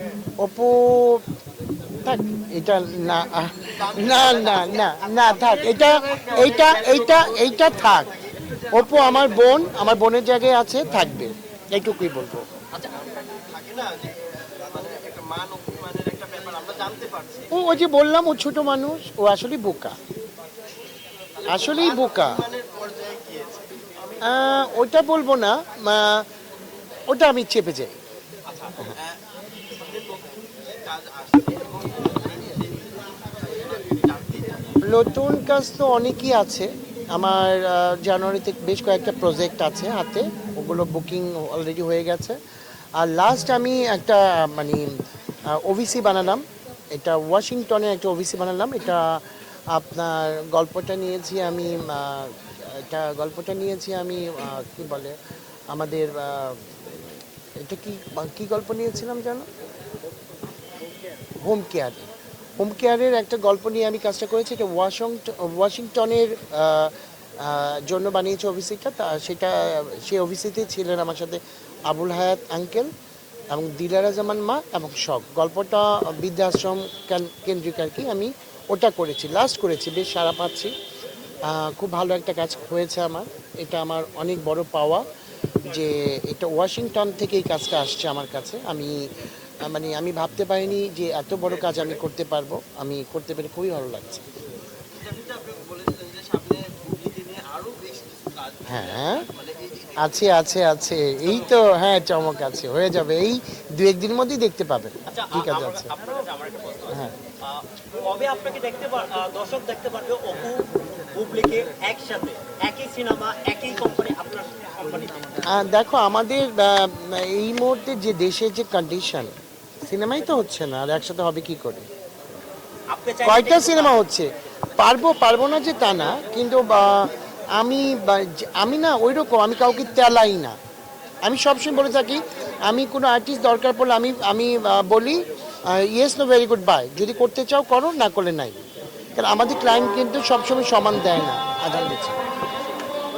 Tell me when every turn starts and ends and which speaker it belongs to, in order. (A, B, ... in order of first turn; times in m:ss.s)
0:00.4-0:01.2 A
0:02.0-0:08.1 A
0:03.7-0:09.8 B
0:08.7-0:12.5 A
0:13.3-0:17.5 B
0:17.5-0:20.0 A
0:21.3-0:24.2 B
0:21.5-0:22.4 A
0:24.2-0:26.3 A
0:27.1-0:28.0 A
0:28.5-0:34.7 B
0:34.8-0:42.4 A
0:43.0-0:55.2 A
0:55.7-0:57.0 A
0:57.6-0:59.5 A
1:00.7-1:01.2 C
1:01.4-1:12.9 A
1:13.5-1:20.7 A
1:21.4-1:25.1 A
1:25.6-1:29.1 A
1:29.6-1:34.2 A
1:34.9-1:40.3 B
1:38.6-1:39.3 A
1:40.0-1:45.9 A
1:41.2-1:41.6 B
1:45.1-1:55.5 C
1:46.9-1:47.1 A
1:55.4-2:01.9 A
2:02.9-2:04.1 C
2:03.2-2:10.6 A
2:11.2-2:18.6 A
2:19.2-2:22.2 A